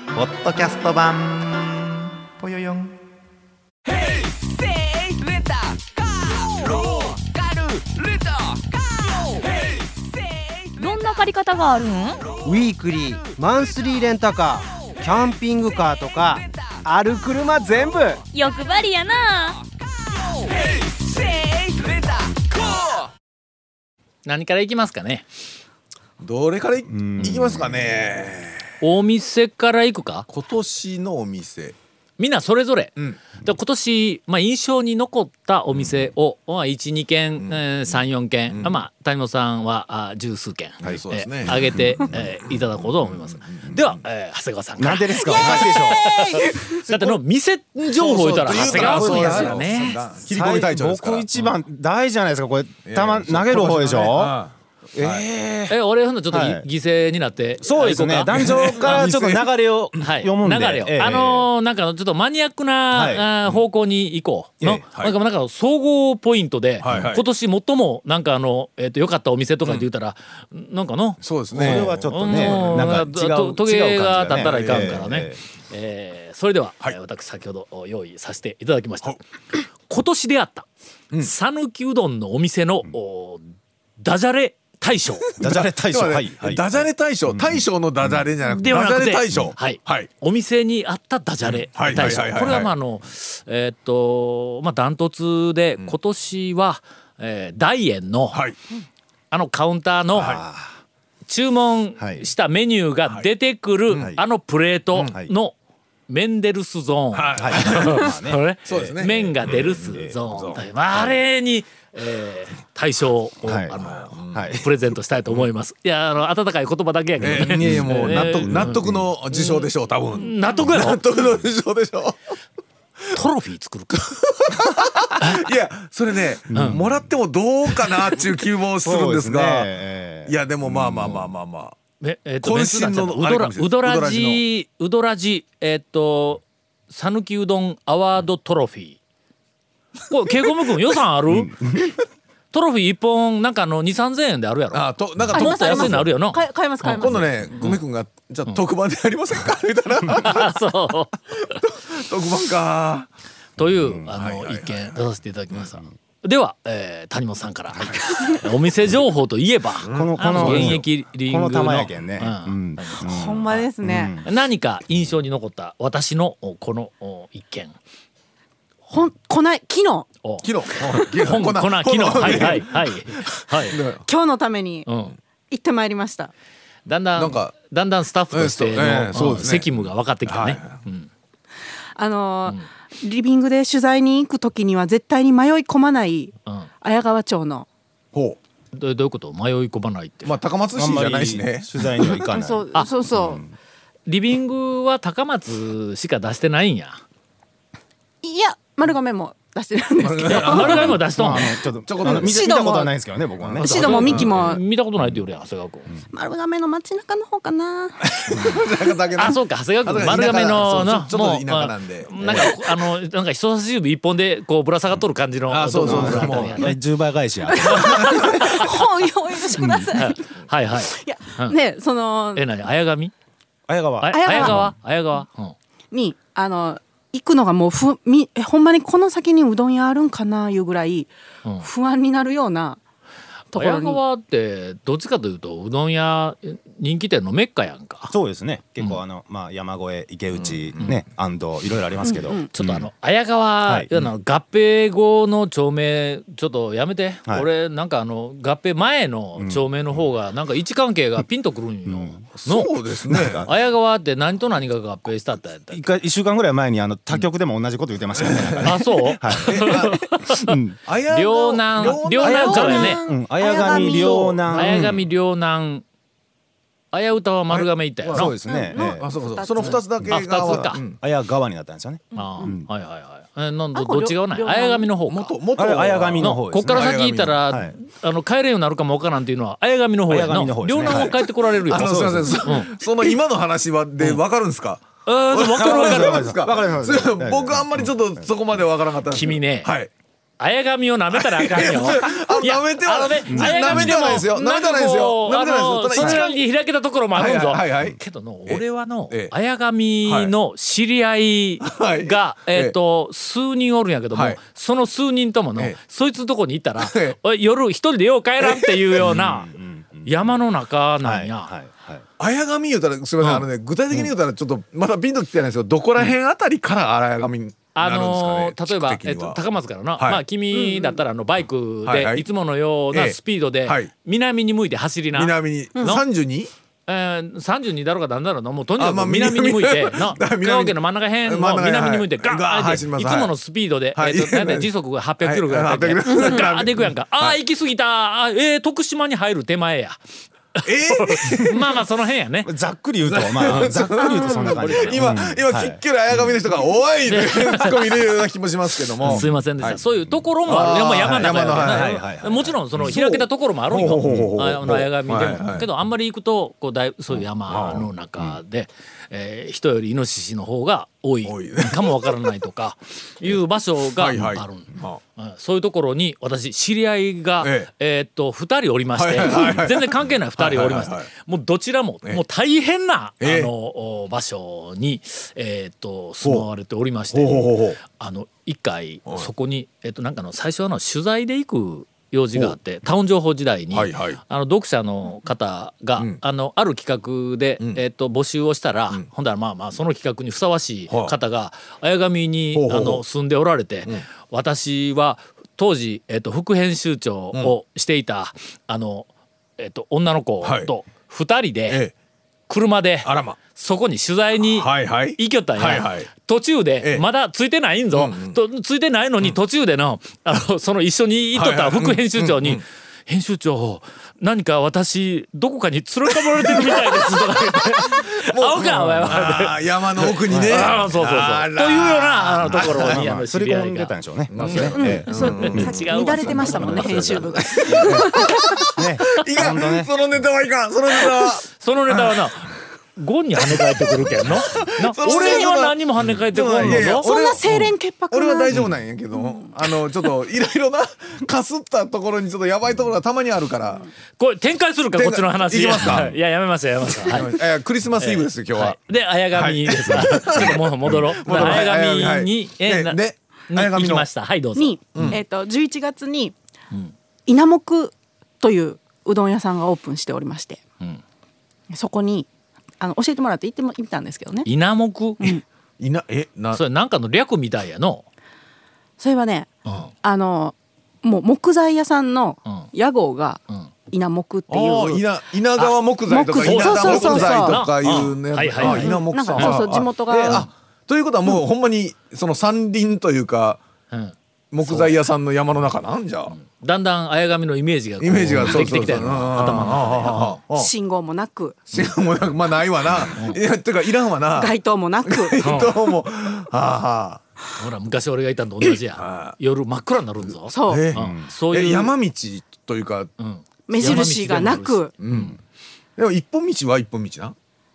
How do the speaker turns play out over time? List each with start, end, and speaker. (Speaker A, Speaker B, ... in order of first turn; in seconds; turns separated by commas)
Speaker A: 0.3-1.8, Speaker A: 2.4-2.9, Speaker B: 10.8-12.3, Speaker C: 12.4-18.2, Speaker B: 18.3-19.6, Speaker D: 24.2-25.2, Speaker E: 26.2-28.7, Speaker F: 26.9-27.7, Speaker D: 28.8-30.3, Speaker E: 30.3-31.8, Speaker D: 32.2-50.0, Speaker E: 38.5-38.8, Speaker F: 40.8-42.0, Speaker E: 40.8-43.9, Speaker F: 44.8-46.1, Speaker G: 45.3-46.7, Speaker F: 46.9-47.2, Speaker E: 47.9-51.3, Speaker F: 48.4-49.7, Speaker F: 50.2-54.4, Speaker E: 52.8-55.3, Speaker F: 54.9-55.7, Speaker D: 55.7-59.1, Speaker F: 56.3-56.6, Speaker F: 57.6-61.5, Speaker E: 58.3-60.0, Speaker D: 60.0-79.2, Speaker F: 62.9-63.2, Speaker E: 66.8-67.2, Speaker E: 71.2-73.0, Speaker F: 71.5-75.4, Speaker E: 74.3-75.0, Speaker D: 79.9-80.7, Speaker D: 81.2-83.5, Speaker D: 84.0-85.3, Speaker E: 85.3-90.1, Speaker F: 85.4-87.6, Speaker D: 88.5-98.4, Speaker E: 91.5-92.7, Speaker F: 91.9-92.4, Speaker D: 99.3-100.3, Speaker F: 100.1-100.7, Speaker E: 100.2-100.4, Speaker D: 101.2-105.5, Speaker F: 102.0-102.2, Speaker F: 104.0-104.2, Speaker D: 106.1-118.8, Speaker E: 107.1-108.1, Speaker F: 107.4-108.4, Speaker E: 108.7-110.6, Speaker F: 109.4-110.2, Speaker F: 113.4-113.8, Speaker E: 113.8-114.6, Speaker F: 114.3-114.6, Speaker F: 117.2-119.1, Speaker E: 117.2-122.2, Speaker D: 119.3-121.0, Speaker D: 123.1-124.0, Speaker E: 124.0-129.7, Speaker D: 125.2-125.5, Speaker F: 126.5-127.0, Speaker D: 126.5-126.8, Speaker F: 128.8-131.2, Speaker E: 130.2-131.8, Speaker D: 132.0-139.0, Speaker E: 132.4-134.4, Speaker D: 140.1-141.8, Speaker F: 141.3-141.9, Speaker D: 142.5-147.8, Speaker E: 144.7-145.9, Speaker G: 145.3-147.3, Speaker E: 147.0-150.6, Speaker D: 150.1-151.6, Speaker E: 151.5-153.1, Speaker D: 153.6-163.6, Speaker F: 153.6-154.1, Speaker E: 154.2-154.9, Speaker E: 159.8-160.8, Speaker F: 159.9-164.2, Speaker G: 163.0-164.2, Speaker D: 164.2-167.7, Speaker G: 168.9-170.1, Speaker D: 170.2-173.8, Speaker E: 170.4-174.0, Speaker G: 174.1-174.9, Speaker D: 174.9-175.2, Speaker G: 175.5-176.3, Speaker D: 176.8-181.1, Speaker E: 177.2-177.5, Speaker E: 178.3-179.7, Speaker E: 180.2-180.8, Speaker G: 181.9-187.7, Speaker E: 188.1-188.4, Speaker D: 188.7-190.3, Speaker E: 190.2-191.8, Speaker F: 190.7-193.5, Speaker G: 192.2-193.4, Speaker D: 194.1-197.0, Speaker G: 198.2-201.0, Speaker E: 200.0-201.3, Speaker D: 200.3-201.5, Speaker F: 201.1-204.2, Speaker E: 201.9-202.6, Speaker G: 202.0-202.9, Speaker G: 203.6-204.6, Speaker D: 203.6-205.9, Speaker E: 204.0-204.3, Speaker G: 206.1-208.4, Speaker E: 208.1-212.7, Speaker D: 209.2-216.8, Speaker E: 215.5-216.7, Speaker F: 215.8-218.2, Speaker G: 217.5-222.4, Speaker D: 217.7-218.7, Speaker F: 219.6-219.9, Speaker D: 219.9-221.6, Speaker D: 222.3-223.1, Speaker F: 223.7-224.7, Speaker D: 224.0-225.5, Speaker G: 224.1-224.6, Speaker G: 225.9-231.1, Speaker G: 231.6-232.8, Speaker G: 233.5-234.0, Speaker D: 233.5-238.1, Speaker F: 238.1-242.9, Speaker E: 240.3-240.9, Speaker G: 242.0-242.5, Speaker D: 242.5-252.7, Speaker F: 249.4-249.7, Speaker F: 251.9-252.2, Speaker E: 252.3-253.5, Speaker F: 253.1-253.5, Speaker D: 253.4-255.8, Speaker F: 255.7-260.8, Speaker E: 258.2-258.8, Speaker D: 258.6-260.6, Speaker E: 259.4-260.0, Speaker E: 260.9-262.9, Speaker D: 261.1-263.0, Speaker G: 261.8-264.4, Speaker F: 262.2-264.9, Speaker D: 264.5-265.8, Speaker E: 264.5-265.0, Speaker D: 266.9-268.3, Speaker E: 267.5-271.0, Speaker F: 268.1-269.0, Speaker G: 268.4-269.8, Speaker F: 270.0-272.7, Speaker D: 270.1-270.8, Speaker G: 272.1-272.5, Speaker D: 272.1-275.3, Speaker G: 273.7-274.9, Speaker E: 275.1-277.4, Speaker F: 275.6-277.7, Speaker D: 276.2-282.7, Speaker F: 280.1-282.4, Speaker E: 280.8-289.9, Speaker D: 285.1-286.3, Speaker F: 285.5-288.2, Speaker D: 289.1-289.7, Speaker D: 290.4-309.5, Speaker E: 291.1-296.3, Speaker F: 293.3-294.1, Speaker E: 297.1-299.3, Speaker E: 300.1-300.3, Speaker E: 301.6-302.8, Speaker E: 304.1-304.4, Speaker E: 306.8-307.2, Speaker E: 308.4-309.2, Speaker F: 309.0-310.3, Speaker D: 310.1-311.5, Speaker F: 311.0-312.0, Speaker E: 312.2-319.4, Speaker D: 317.7-326.0, Speaker G: 320.5-321.0, Speaker E: 321.9-322.2, Speaker E: 322.9-323.9, Speaker E: 325.1-326.5, Speaker D: 326.9-340.0, Speaker E: 328.8-333.3, Speaker E: 333.9-334.7, Speaker E: 335.2-337.4, Speaker D: 340.5-342.5, Speaker E: 340.6-341.8, Speaker F: 342.4-346.3, Speaker E: 343.1-349.8, Speaker D: 343.5-345.0, Speaker G: 344.2-344.5, Speaker D: 347.1-348.2, Speaker D: 349.0-401.8, Speaker E: 350.4-351.9, Speaker F: 351.0-352.6, Speaker E: 352.8-355.7, Speaker E: 357.5-357.9, Speaker F: 357.5-357.8, Speaker E: 361.2-362.2, Speaker E: 364.0-365.0, Speaker E: 367.4-367.7, Speaker E: 368.9-371.1, Speaker E: 373.2-373.5, Speaker E: 377.1-377.8, Speaker E: 383.7-384.2, Speaker E: 390.9-391.1, Speaker E: 392.5-393.0, Speaker E: 400.4-400.7, Speaker D: 402.5-419.6, Speaker E: 403.0-403.4, Speaker E: 404.5-406.1, Speaker E: 407.9-408.4, Speaker E: 411.3-412.6, Speaker E: 416.1-423.0, Speaker D: 420.1-424.7, Speaker F: 420.3-420.8, Speaker F: 422.4-428.2, Speaker E: 424.3-425.9, Speaker G: 424.7-428.7, Speaker D: 425.4-427.2, Speaker E: 427.5-432.3, Speaker F: 428.8-429.9, Speaker D: 431.5-437.7, Speaker E: 433.4-435.8, Speaker G: 435.1-435.5, Speaker E: 436.3-437.6, Speaker G: 436.8-438.6, Speaker E: 438.1-443.8, Speaker G: 439.1-439.5, Speaker D: 444.2-447.4, Speaker E: 444.9-446.1, Speaker E: 447.0-448.8, Speaker D: 448.0-455.2, Speaker E: 449.3-454.1, Speaker G: 454.6-456.3, Speaker E: 454.9-455.2, Speaker G: 457.2-460.6, Speaker G: 461.7-462.3, Speaker G: 462.8-464.5, Speaker D: 464.4-465.4, Speaker E: 465.8-466.6, Speaker D: 466.5-468.0, Speaker G: 469.0-475.0, Speaker D: 469.6-469.9, Speaker E: 474.5-483.6, Speaker G: 476.1-477.6, Speaker D: 476.4-479.6, Speaker G: 478.6-480.5, Speaker D: 483.9-484.9, Speaker E: 484.5-486.4, Speaker D: 486.3-490.4, Speaker E: 488.0-490.7, Speaker G: 490.5-491.7, Speaker E: 491.7-494.5, Speaker G: 494.3-495.5, Speaker E: 495.1-497.2, Speaker D: 495.4-495.7, Speaker D: 497.6-501.9, Speaker E: 499.0-499.4, Speaker G: 500.5-500.9, Speaker E: 500.6-503.1, Speaker F: 500.9-501.3, Speaker D: 503.2-505.3, Speaker G: 503.7-504.9, Speaker E: 503.8-504.1, Speaker E: 505.0-505.4, Speaker E: 506.0-507.3